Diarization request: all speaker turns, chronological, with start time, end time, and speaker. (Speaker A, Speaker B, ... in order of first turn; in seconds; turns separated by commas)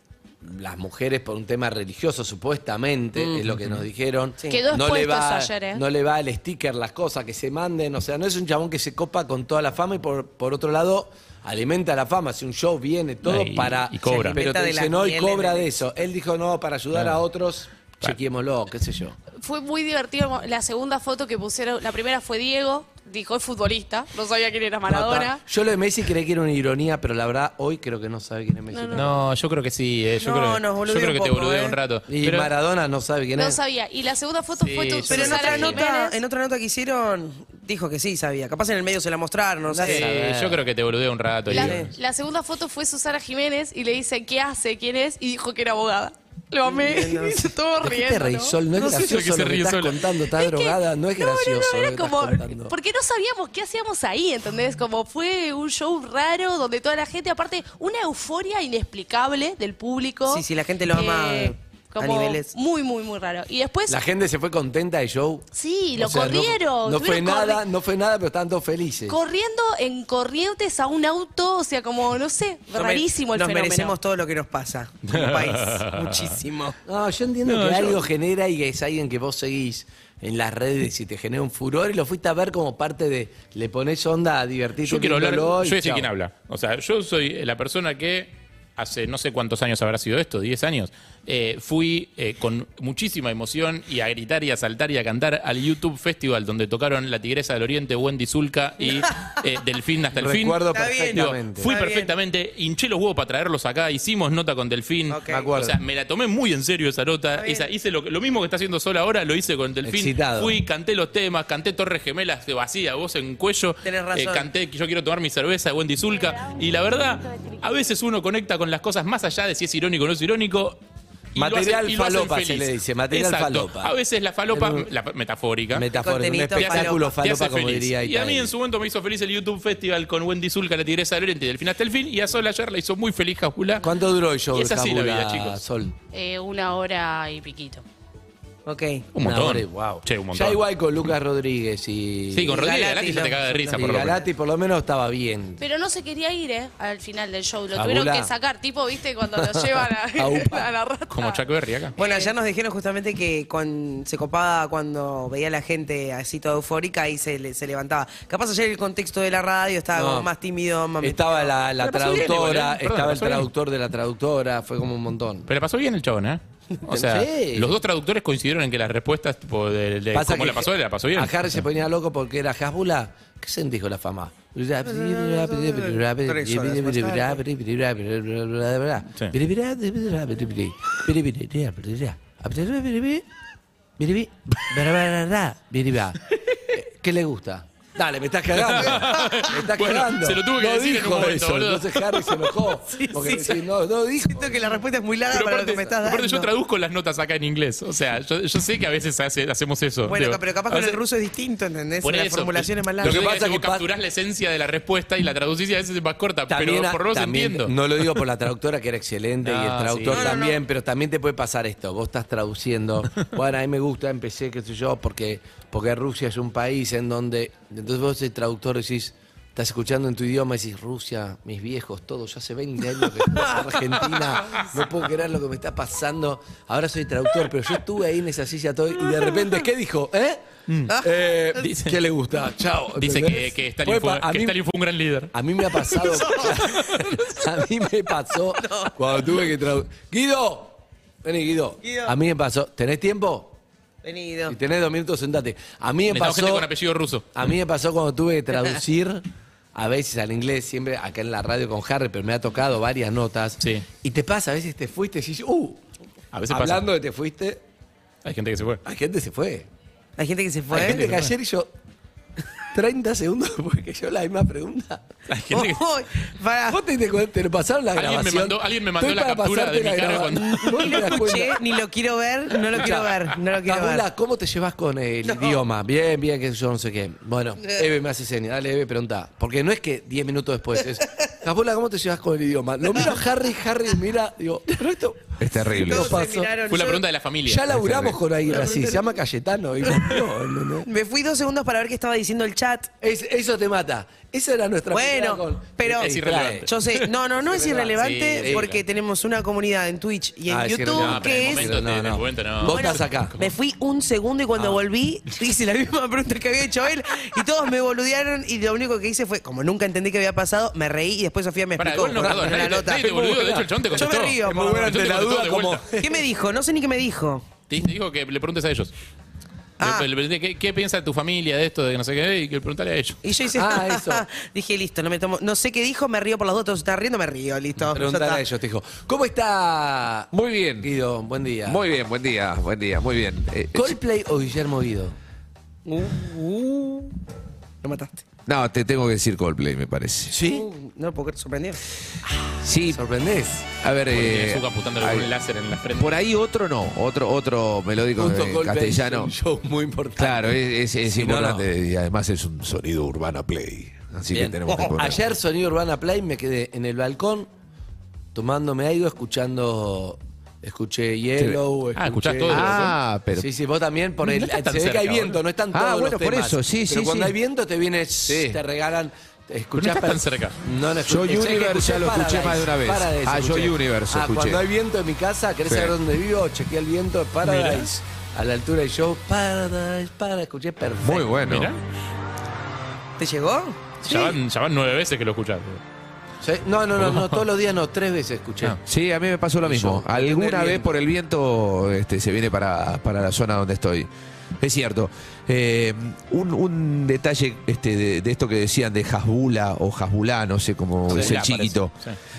Speaker A: 0.4-19.2, Speaker B: 3.1-3.4, Speaker C: 3.5-3.9, Speaker D: 4.5-5.8, Speaker C: 13.2-14.4, Speaker B: 14.0-15.8, Speaker C: 16.9-17.2, Speaker D: 19.4-25.4, Speaker A: 24.9-29.2, Speaker D: 28.7-29.1, Speaker C: 28.9-32.5, Speaker B: 30.2-31.8, Speaker A: 32.1-33.6, Speaker D: 33.3-36.2, Speaker C: 34.6-35.8, Speaker B: 35.1-40.1, Speaker A: 39.7-40.6, Speaker C: 39.8-41.9, Speaker D: 41.5-48.6, Speaker B: 41.5-41.9, Speaker B: 46.6-47.5, Speaker A: 47.8-52.7, Speaker C: 48.7-50.0, Speaker D: 50.4-64.0, Speaker B: 60.2-62.5, Speaker A: 63.9-69.2, Speaker D: 65.5-67.6, Speaker D: 69.1-74.0, Speaker B: 72.7-76.8, Speaker C: 75.1-76.4, Speaker A: 76.8-86.1, Speaker C: 77.4-78.1, Speaker C: 84.8-120.8, Speaker A: 100.1-101.7, Speaker B: 100.7-102.1, Speaker B: 105.1-105.5, Speaker A: 105.3-105.8, Speaker B: 107.3-107.7, Speaker A: 109.8-110.5, Speaker B: 113.8-114.5, Speaker C: 121.3-125.9, Speaker A: 121.3-123.9, Speaker A: 124.5-124.9, Speaker A: 125.7-128.5, Speaker B: 125.9-127.1, Speaker C: 126.5-133.8, Speaker A: 133.8-135.9, Speaker C: 134.5-135.6, Speaker D: 136.1-137.8, Speaker B: 138.7-139.0, Speaker C: 139.1-140.6, Speaker A: 139.2-142.7, Speaker C: 142.3-144.2, Speaker B: 142.5-143.8, Speaker A: 143.7-145.6, Speaker D: 145.6-151.4, Speaker A: 147.7-148.3, Speaker A: 149.3-150.7, Speaker C: 151.1-151.9, Speaker D: 151.9-152.3, Speaker B: 152.0-161.5, Speaker A: 159.9-160.3, Speaker A: 161.0-165.5, Speaker C: 161.8-163.5, Speaker C: 165.5-171.6, Speaker A: 166.9-167.8, Speaker A: 170.1-183.2, Speaker B: 174.8-177.4, Speaker A: 184.0-194.7, Speaker C: 188.5-192.3, Speaker B: 192.9-193.6, Speaker B: 194.3-196.5, Speaker C: 195.3-201.0, Speaker B: 200.1-203.2, Speaker C: 202.0-208.2, Speaker A: 203.0-203.8, Speaker A: 206.5-230.4, Speaker C: 209.4-210.4, Speaker B: 210.1-210.6, Speaker C: 230.7-230.9, Speaker A: 231.0-234.6, Speaker C: 231.6-232.0, Speaker C: 232.9-235.3, Speaker A: 235.3-243.6, Speaker B: 236.1-236.5, Speaker B: 238.6-238.9, Speaker B: 241.8-242.1, Speaker B: 244.0-244.6, Speaker A: 244.5-246.7, Speaker C: 246.1-247.4, Speaker A: 247.3-249.2, Speaker A: 249.7-255.8, Speaker C: 253.6-253.8, Speaker C: 256.3-256.9, Speaker A: 256.5-257.6, Speaker C: 258.2-258.8, Speaker A: 258.8-259.7, Speaker B: 260.2-261.1, Speaker A: 260.7-261.7, Speaker C: 260.7-261.3, Speaker A: 262.7-265.0, Speaker C: 265.3-265.8, Speaker B: 265.5-266.8, Speaker A: 266.7-271.6, Speaker C: 267.9-271.1, Speaker B: 270.4-274.0, Speaker A: 272.7-286.6, Speaker B: 275.3-275.6, Speaker E: 285.4-286.2, Speaker B: 285.8-287.0, Speaker C: 286.7-287.7, Speaker A: 287.4-290.9, Speaker E: 287.7-288.2, Speaker B: 290.8-292.9, Speaker A: 293.0-296.7, Speaker B: 294.9-301.7, Speaker C: 296.0-297.0, Speaker A: 297.5-298.7, Speaker C: 297.9-298.8, Speaker A: 300.5-303.3, Speaker C: 300.9-303.3, Speaker B: 302.6-314.9, Speaker C: 311.8-315.8, Speaker A: 312.2-316.3, Speaker B: 316.0-317.4, Speaker C: 317.7-318.9, Speaker B: 319.8-320.1, Speaker C: 319.8-323.2, Speaker B: 323.2-328.4, Speaker A: 323.5-324.2, Speaker A: 327.9-330.3, Speaker E: 330.3-330.9, Speaker A: 330.8-331.8, Speaker E: 331.6-333.9, Speaker A: 333.7-335.1, Speaker B: 335.9-337.1, Speaker B: 337.8-338.2, Speaker E: 338.4-340.4, Speaker A: 340.3-340.6, Speaker B: 340.4-341.8, Speaker E: 342.6-343.0, Speaker A: 342.9-343.6, Speaker E: 343.8-345.3, Speaker C: 344.1-346.2, Speaker E: 345.9-349.3, Speaker A: 348.2-350.6, Speaker E: 350.2-355.3, Speaker A: 351.1-351.7, Speaker A: 354.3-357.5, Speaker A: 358.3-381.4, Speaker C: 361.9-362.9, Speaker E: 362.5-363.5, Speaker C: 364.2-365.4, Speaker E: 365.7-367.4, Speaker E: 368.2-368.6, Speaker C: 369.8-370.6, Speaker E: 371.0-374.6, Speaker E: 375.7-375.9, Speaker C: 377.4-377.9, Speaker E: 381.0-381.7, Speaker C: 381.4-381.8, Speaker B: 383.2-384.3, Speaker C: 384.0-385.8, Speaker A: 386.4-388.8, Speaker C: 387.0-387.5, Speaker E: 388.8-401.9, Speaker A: 389.6-390.9, Speaker C: 401.1-402.2